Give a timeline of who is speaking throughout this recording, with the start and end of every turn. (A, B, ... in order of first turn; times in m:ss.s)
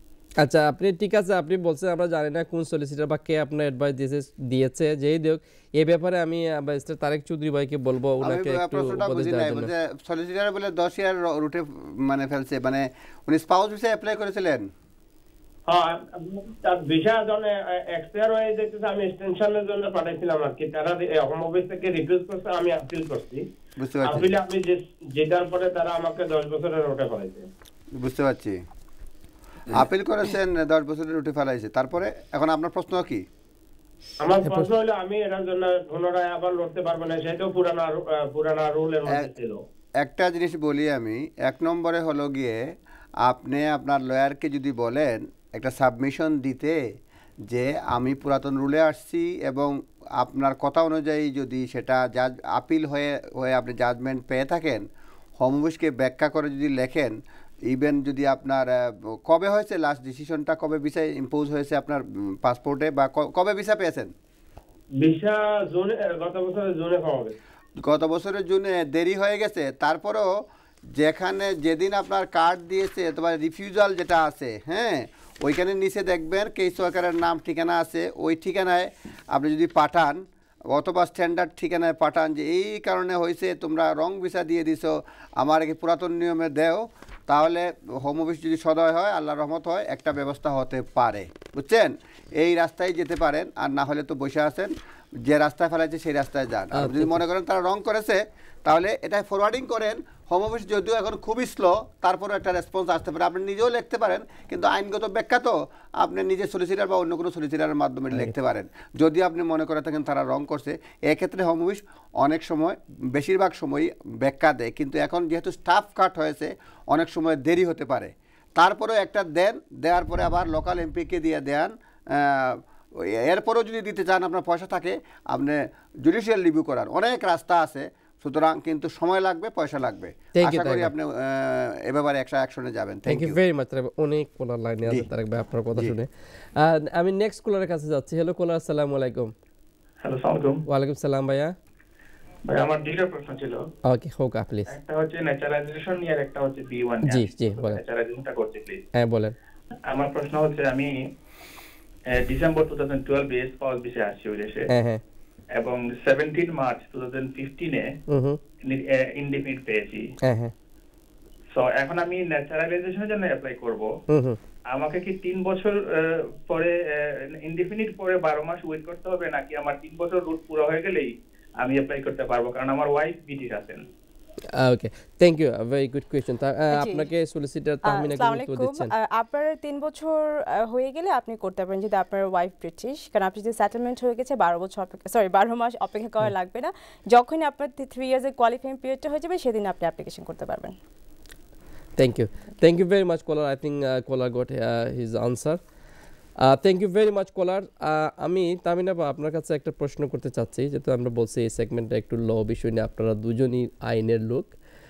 0:00.4-0:09.7 A
0:08.2-0:14.7 B
0:15.7-0:23.4 C
0:23.8-0:24.3 B
0:24.0-0:27.5 C
0:28.0-0:28.6 B
0:29.7-0:33.2 B
0:34.2-0:39.6 C
0:34.4-0:34.7 A
0:40.0-0:42.6 B
0:43.2-0:46.8 B
0:47.5-0:54.8 B
0:55.4-1:04.1 B
1:05.0-1:07.4 C
1:07.8-1:10.3 B
1:10.9-2:13.4 B
1:36.8-1:37.2 A
2:10.4-2:10.9 A
2:13.1-2:19.3 A
2:20.0-2:20.6 D
2:20.7-2:21.6 A
2:22.5-2:23.7 D
2:23.8-2:24.7 A
2:24.7-2:28.8 D
2:27.1-2:27.8 A
2:29.0-2:29.4 A
2:29.9-2:30.9 D
2:32.2-2:34.7 D
2:34.7-2:35.0 A
2:35.6-2:37.9 D
2:38.1-2:38.4 A
2:38.7-2:40.0 D
2:40.2-2:40.5 A
2:41.5-2:43.9 D
2:44.1-2:44.4 A
2:44.7-2:46.7 D
2:47.3-2:53.8 D
2:54.6-2:58.9 A
2:56.7-2:57.1 E
2:57.8-3:10.8 E
3:12.0-3:15.6 A
3:16.4-3:24.5 A